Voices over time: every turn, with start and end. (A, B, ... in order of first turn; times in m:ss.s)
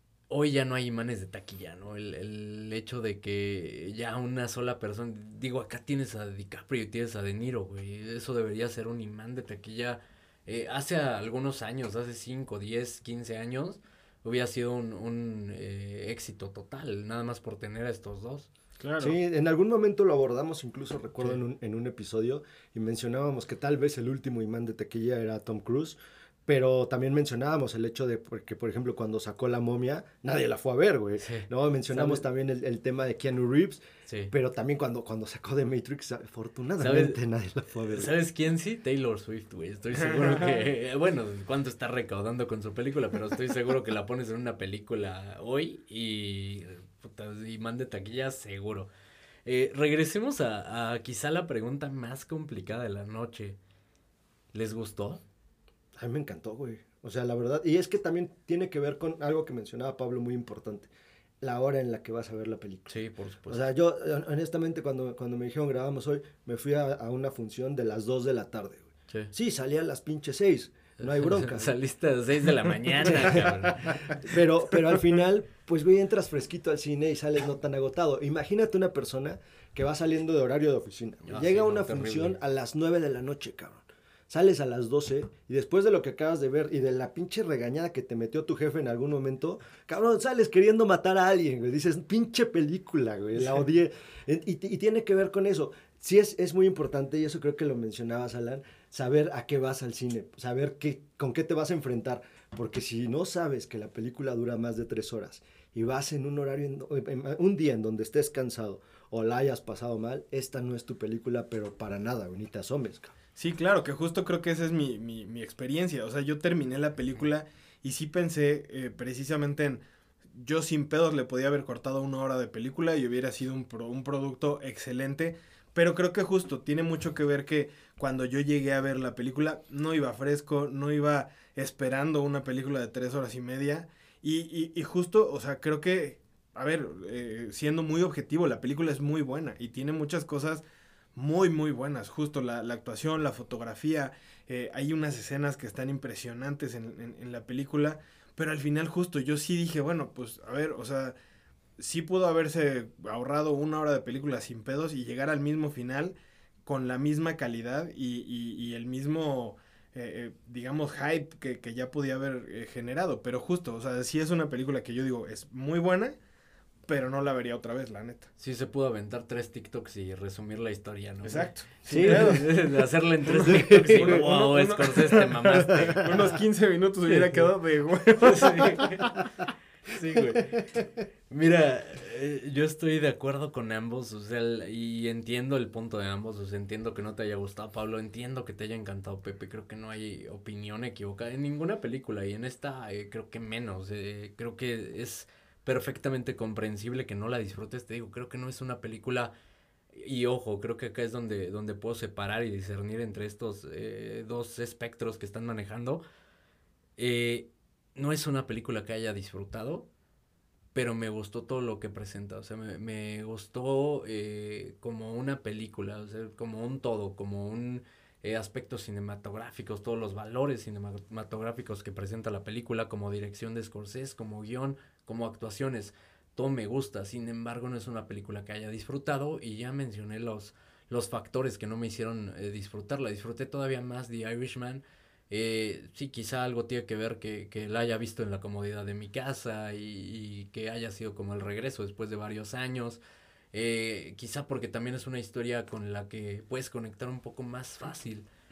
0:00.3-0:18.5 A
0:18.8-0:19.2 B
0:19.0-0:38.1 C
0:31.2-0:32.2 A
0:36.8-0:37.2 A
0:37.9-0:48.9 A
0:40.0-0:40.6 B
0:49.4-0:53.6 A
0:54.5-0:55.2 A
0:56.0-1:00.9 C
1:01.4-1:02.9 C
1:02.9-1:03.6 A
1:03.5-1:11.7 C
1:11.0-1:14.4 A
1:13.0-1:53.1 C
1:21.3-1:22.4 A
1:53.4-2:20.6 B
2:21.1-2:31.1 B
2:31.8-2:46.2 B
2:46.9-2:48.3 B
2:48.4-2:56.4 A
2:51.2-2:52.5 B
2:51.8-2:52.5 C
2:53.2-2:59.0 B
2:53.4-2:54.3 C
2:55.7-2:56.1 C
2:57.1-2:57.4 A
2:58.2-2:59.2 A
2:59.9-3:00.6 A
3:01.3-3:19.3 A
3:19.9-3:26.0 A
3:27.0-3:29.9 A
3:30.7-4:03.0 A
4:03.5-4:08.2 A